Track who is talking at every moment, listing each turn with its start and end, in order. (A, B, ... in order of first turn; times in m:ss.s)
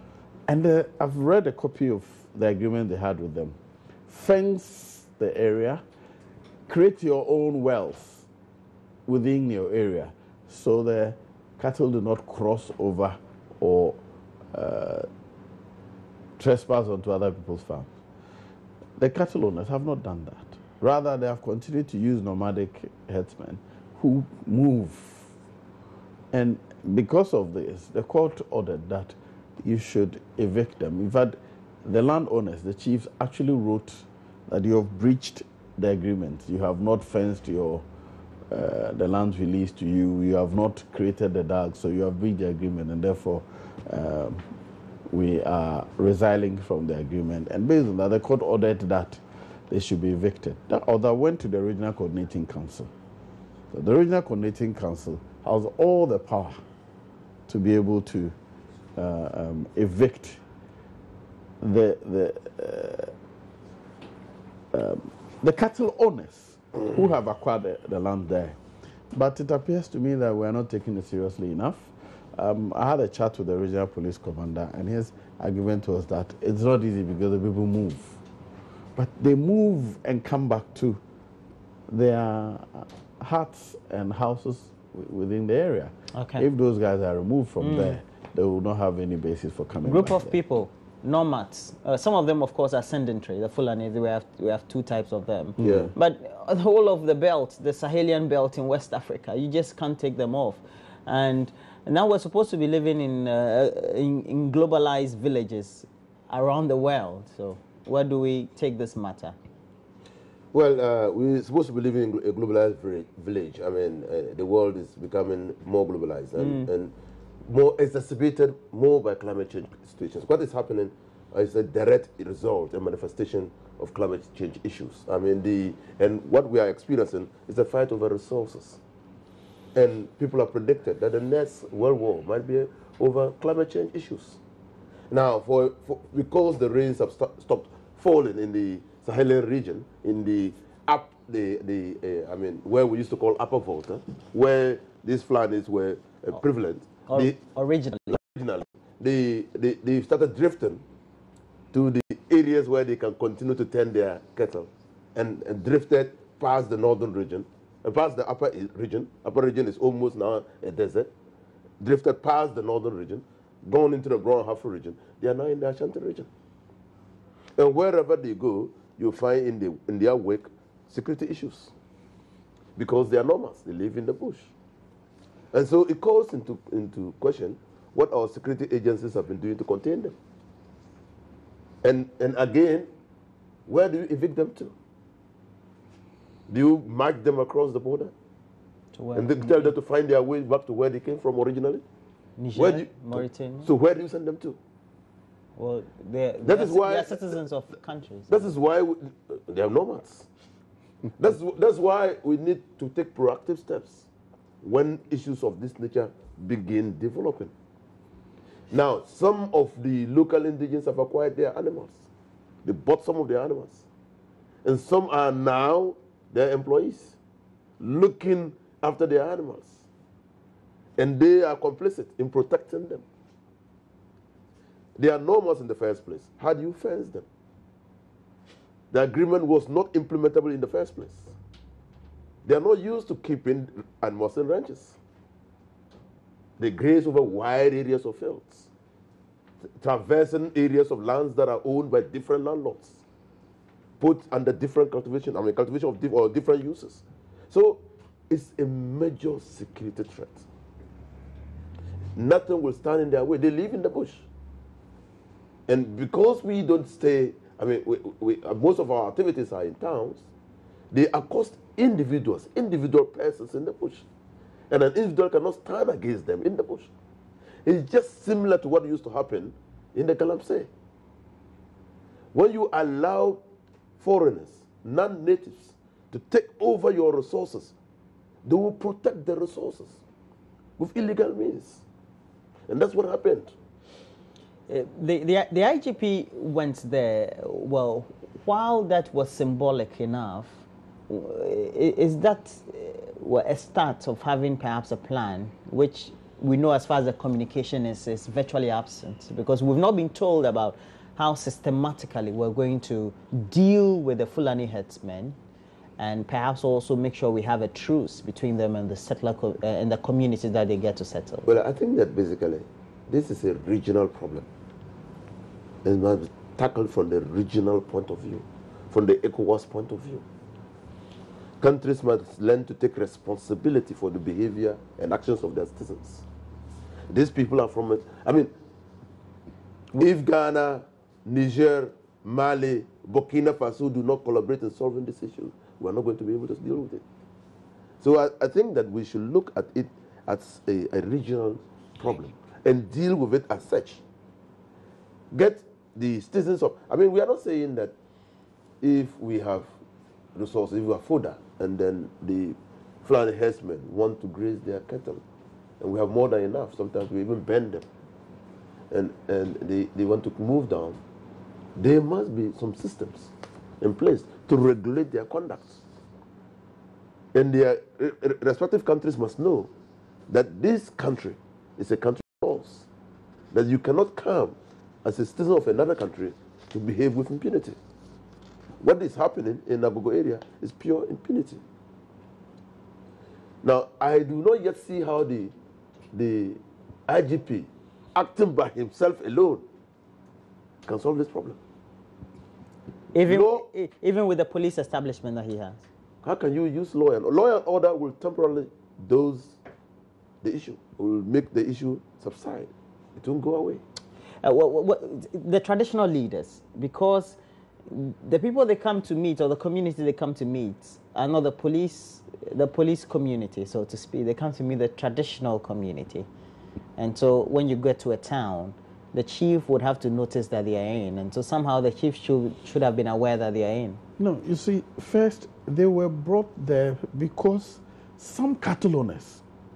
0:00.5-0:03.6 A
0:04.1-0:05.8 A
0:06.7-0:08.3 A
0:09.1-0:14.0 A
0:14.5-0:15.1 A
0:16.4-0:17.9 A
0:19.0-0:25.3 A
0:26.3-0:37.8 A
0:38.5-0:44.4 A
0:45.1-0:52.9 A
0:53.7-0:56.6 A
0:57.5-0:58.3 A
0:59.0-1:00.4 A
1:01.6-1:03.1 A
1:04.7-1:08.6 A
1:09.1-1:18.2 A
1:19.0-1:21.0 A
1:21.9-1:30.4 A
1:26.1-1:26.4 B
1:27.6-1:28.0 B
1:29.8-1:49.4 B
1:35.6-1:35.9 A
1:35.6-1:35.9 C
1:50.5-1:56.9 C
1:56.4-1:56.7 B
1:57.4-2:08.8 C
2:09.8-2:14.4 C
2:15.1-2:27.4 C
2:27.1-2:28.2 B
2:28.1-2:30.8 C
2:31.7-2:41.1 C
2:41.8-2:46.3 C
2:47.6-2:51.7 C
2:52.8-2:54.5 C
2:55.5-3:00.1 C
3:01.8-3:02.9 C
3:03.7-3:04.7 C
3:06.5-3:08.1 C
3:08.9-3:09.7 B
3:09.2-3:11.8 C
3:12.4-3:13.7 B
3:12.5-3:14.6 C
3:15.6-3:18.5 B
3:16.4-3:17.4 C
3:18.3-3:20.3 C
3:21.2-3:24.0 C
3:24.6-3:27.5 C
3:28.7-3:32.0 C
3:32.6-3:33.8 C
3:34.6-3:37.2 C
3:37.8-3:39.8 C
3:41.0-3:43.0 C
3:45.0-3:47.2 C
3:48.9-3:51.3 C
3:52.4-3:55.0 C
3:56.6-3:58.7 C
3:59.8-4:03.0 C
4:04.0-4:10.4 C
4:12.2-4:14.2 C
4:15.7-4:20.2 C
4:20.9-4:24.0 C
4:24.7-4:26.9 C
4:27.6-4:30.7 C
4:32.3-4:33.4 C
4:34.0-4:37.7 C
4:38.4-4:40.0 C
4:40.8-4:41.8 C
4:42.7-4:43.5 C
4:44.7-5:05.4 B
5:06.0-5:11.6 B
5:11.4-5:14.4 C
5:15.8-5:20.2 C
5:21.6-5:26.2 C
5:27.1-5:28.5 C
5:30.0-5:37.0 C
5:38.0-5:44.0 C
5:45.3-5:47.9 C
5:48.8-5:49.7 C
5:50.3-5:55.2 C
5:55.8-5:57.9 C
5:58.9-6:01.0 C
6:01.8-6:05.8 C
6:07.3-6:09.7 C
6:10.3-6:12.9 C
6:13.5-6:17.8 C
6:18.8-6:21.6 C
6:23.6-6:25.5 C
6:26.1-6:29.6 C
6:30.9-6:31.6 C
6:33.1-6:35.8 B
6:33.2-6:33.6 C
6:36.2-6:39.6 C
6:40.4-6:43.8 C
6:44.4-6:56.3 B
6:57.0-7:04.0 B
7:04.2-7:09.4 A